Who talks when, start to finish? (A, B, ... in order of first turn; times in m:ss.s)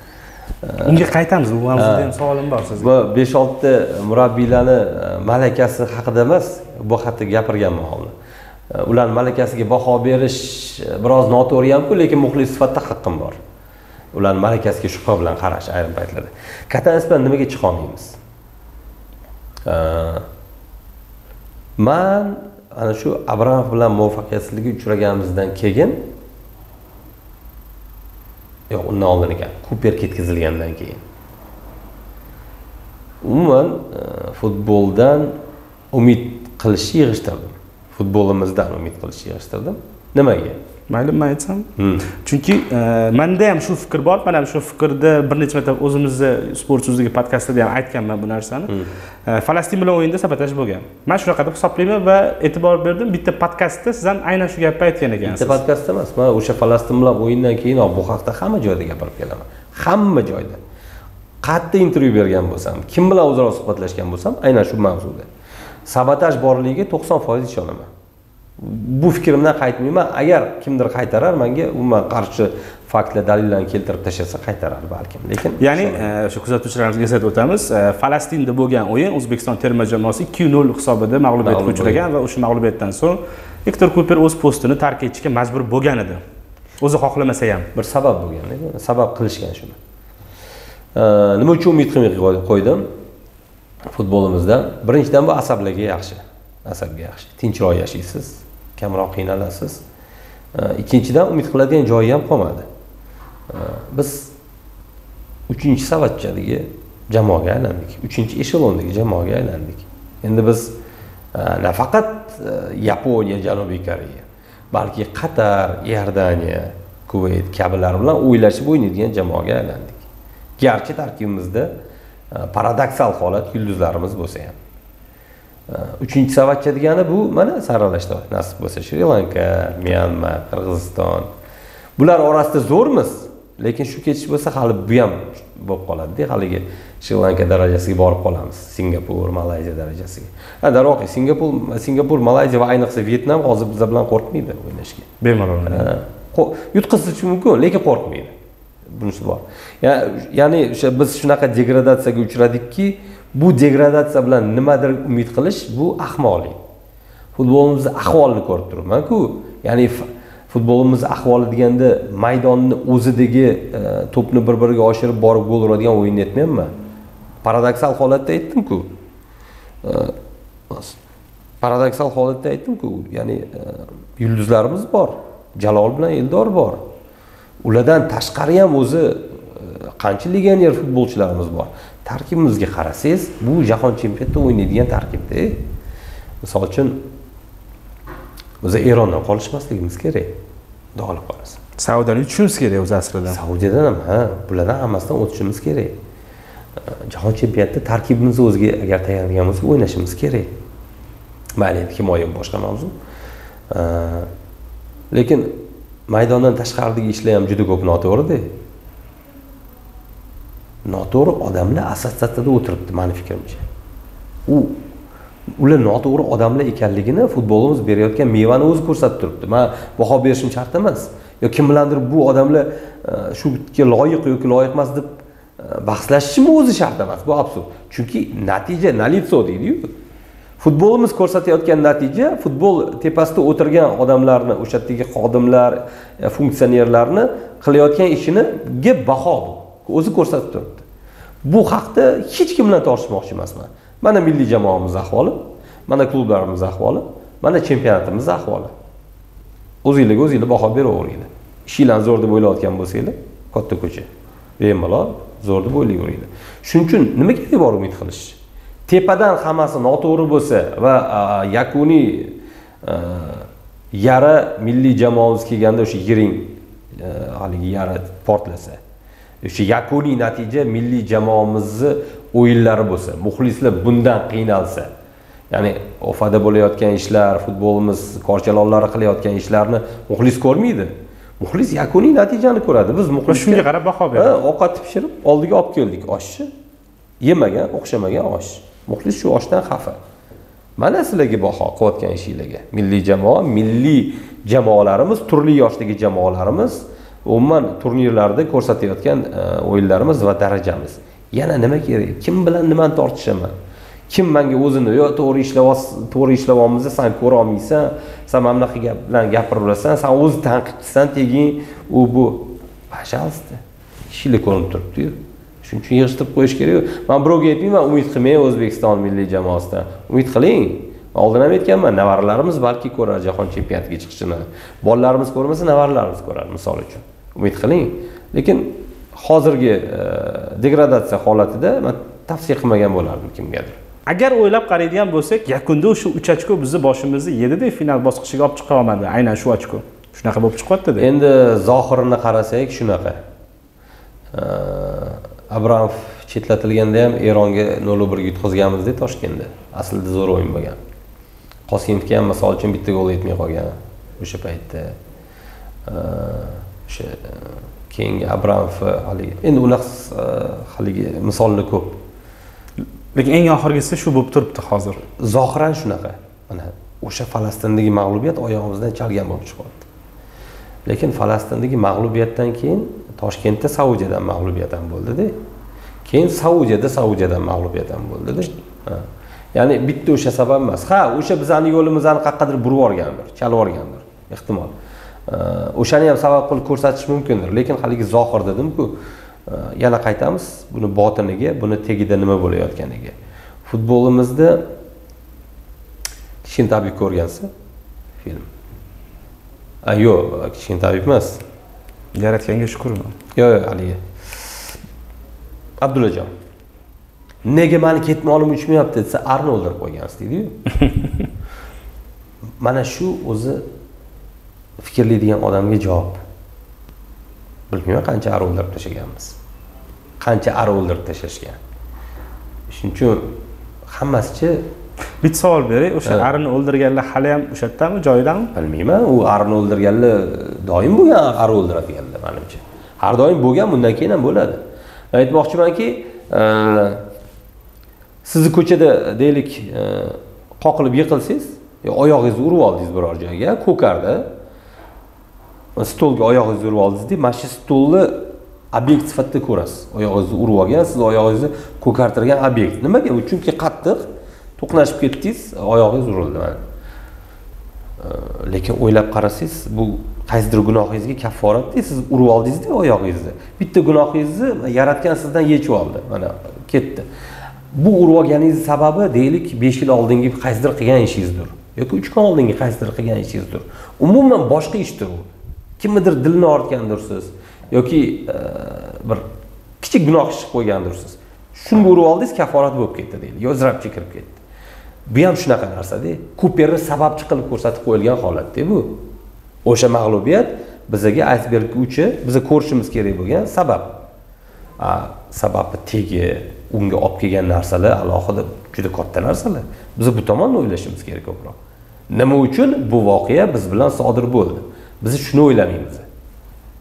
0:00.6-0:01.0 A
0:00.8-0:02.9 B
0:01.7-0:02.1 A
0:02.7-0:08.1 A
0:08.7-0:13.4 A
0:14.1-0:18.2 A
0:19.6-0:20.2 A
0:21.8-0:26.0 A
0:28.7-0:31.0 A
0:33.2-0:35.3 A
0:35.9-0:40.6 A
0:40.9-0:41.7 B
0:41.8-0:42.1 A
0:42.2-0:48.7 B
0:49.2-0:55.6 B
0:55.2-1:00.6 A
1:01.4-1:05.3 A
1:05.8-1:07.9 A
1:08.6-1:16.0 A
1:15.6-1:26.2 B
1:21.4-1:22.0 A
1:26.8-1:27.7 B
1:27.7-1:29.8 A
1:30.9-1:32.9 A
1:33.9-1:39.8 A
1:40.5-1:42.6 A
1:43.5-1:44.3 A
1:45.5-1:50.7 A
1:51.3-2:00.0 A
2:00.6-2:01.7 A
2:02.3-2:04.6 A
2:05.7-2:11.3 A
2:12.0-2:25.1 A
2:25.2-2:25.9 B
2:25.7-2:28.3 A
2:28.9-2:36.6 A
2:37.4-2:46.7 A
2:47.4-2:48.9 A
2:49.8-2:50.1 A
2:50.7-2:51.0 A
2:51.6-2:56.8 A
2:57.6-3:05.6 A
3:06.4-3:07.1 A
3:08.6-3:10.3 A
3:11.0-3:11.6 A
3:11.8-3:13.4 B
3:13.3-3:16.0 A
3:16.9-3:20.5 A
3:21.6-3:22.9 A
3:23.7-3:24.3 A
3:25.1-3:25.6 A
3:26.1-3:28.5 A
3:30.8-3:33.6 A
3:34.5-3:34.8 A
3:35.6-3:49.9 A
3:50.6-4:00.8 A
4:01.4-4:08.7 A
4:09.8-4:14.1 A
4:14.6-4:28.8 A
4:29.4-4:34.9 A
4:35.5-4:46.5 A
4:43.3-4:44.3 B
4:47.2-4:50.0 A
4:50.8-5:03.5 A
5:04.1-5:33.8 A
5:34.1-5:41.1 B
5:41.0-5:43.2 A
5:44.3-5:50.8 A
5:51.7-5:55.0 A
5:55.8-6:02.0 A
6:03.1-6:05.0 B
6:05.2-6:09.8 A
6:10.8-6:15.4 A
6:16.0-6:24.7 A
6:25.3-6:33.1 A
6:33.6-6:34.6 A
6:36.4-6:37.5 A
6:38.2-6:38.5 A
6:39.8-6:41.4 A
6:42.2-6:43.1 B
6:43.3-6:44.7 A
6:45.8-6:46.3 A
6:47.4-6:50.6 A
6:52.6-6:53.6 A
6:54.8-6:56.2 A
6:57.7-6:59.4 A
7:00.2-7:01.6 A
7:02.7-7:03.4 A
7:03.9-7:04.7 A
7:05.2-7:08.5 B
7:08.5-7:14.6 A
7:15.1-7:17.0 A
7:18.2-7:24.3 A
7:25.8-7:34.0 A
7:34.6-7:36.6 A
7:38.0-7:47.0 A
7:47.7-7:55.2 A
7:55.8-7:59.3 A
7:59.8-8:04.4 A
8:05.1-8:09.0 A
8:09.6-8:14.0 A
8:14.8-8:21.6 A
8:22.1-8:26.0 A